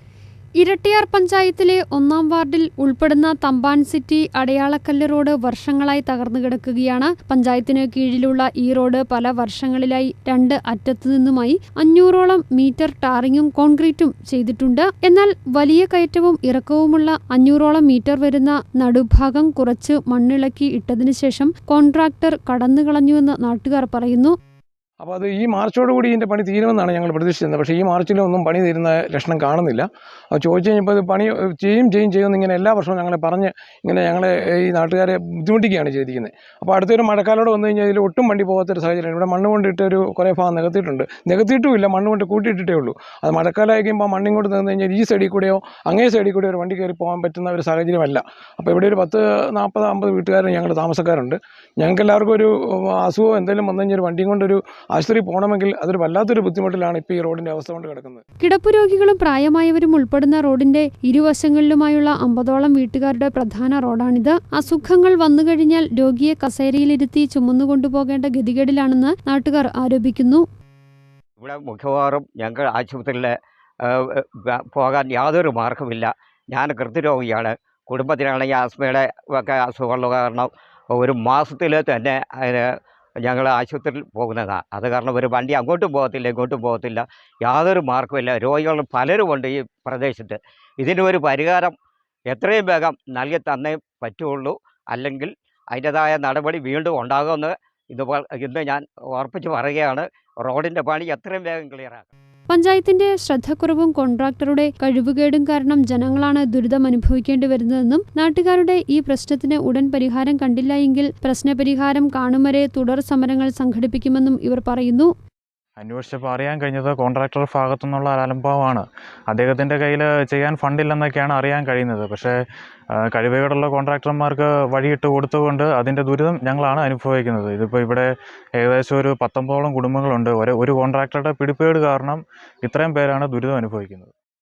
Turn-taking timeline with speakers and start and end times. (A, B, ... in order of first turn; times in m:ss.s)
0:00.6-0:24.4 A
0:25.0-0:58.2 B
0:58.4-1:10.4 A
1:11.4-1:13.3 C
1:13.8-1:22.7 C
1:23.2-1:31.8 C
1:32.3-1:42.1 C
1:42.5-1:55.1 A
1:55.8-2:02.4 D
2:03.0-2:14.1 D